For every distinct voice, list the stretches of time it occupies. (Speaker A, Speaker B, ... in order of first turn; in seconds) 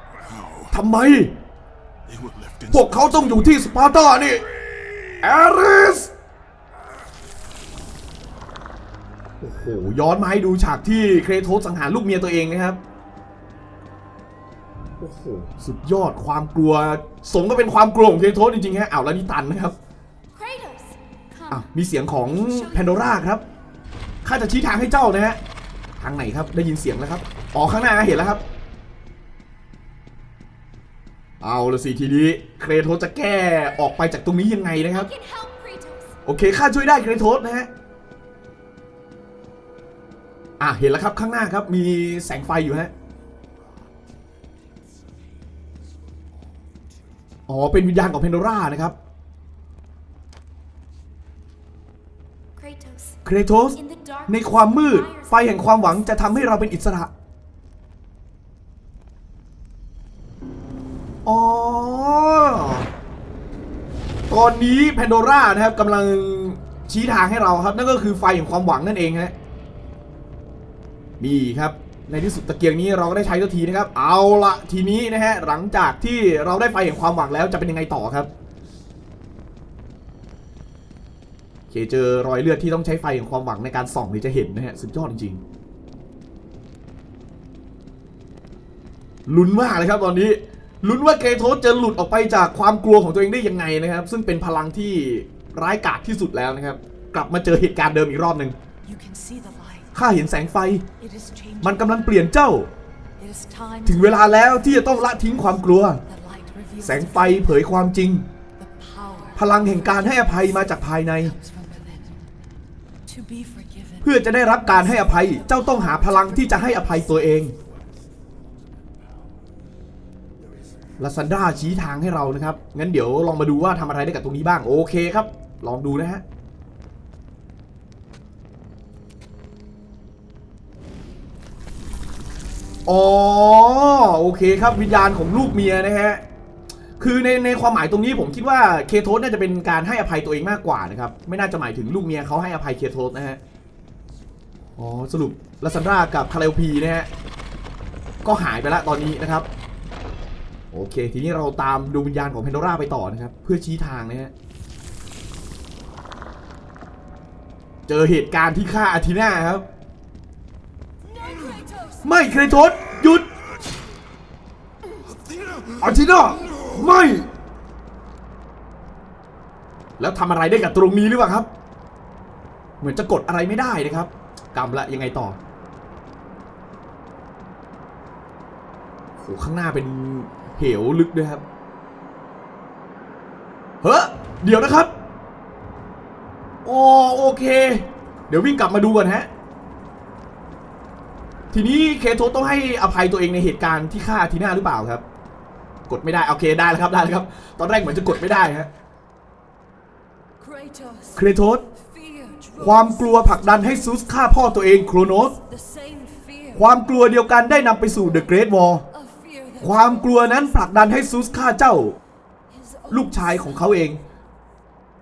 Speaker A: 0.2-0.7, 2.0-3.5, 165.3-165.8
Speaker B: 0.7-1.3, 2.7-4.4, 5.2-6.1, 9.4-12.8, 15.0-19.7, 21.5-23.4, 24.2-25.4, 26.0-28.4, 31.4-35.1, 36.2-37.7, 40.6-42.9, 47.5-48.9, 53.2-57.1, 61.2-62.9, 64.3-69.3, 71.2-78.3, 81.7-85.4, 89.3-98.5, 99.9-100.8, 101.6-102.7, 103.8-106.0, 106.8-108.2, 109.3-111.3, 114.0-117.5, 121.0-126.2, 132.8-136.2, 137.0-143.4, 144.8-147.1, 148.2-149.5, 150.7-154.3, 157.9-159.6, 162.0-163.3, 165.8-167.3, 170.0-171.5, 172.8-175.4, 179.2-181.4, 183.8-184.9, 186.6-189.3, 191.5-195.0, 195.9-198.7, 201.1-201.6, 202.6-205.3, 206.5-208.8, 209.6-212.0, 212.9-214.0
Speaker C: 20.3-21.7, 22.3-23.2, 34.9-36.1, 52.5-53.2, 53.7-56.6
Speaker D: 98.8-99.9, 101.0-102.1, 103.2-104.7, 106.0-107.5, 108.6-112.2, 113.0-117.4, 161.1-162.5, 200.4-204.3, 205.3-206.8, 208.0-208.3, 208.8-210.7, 212.5-213.6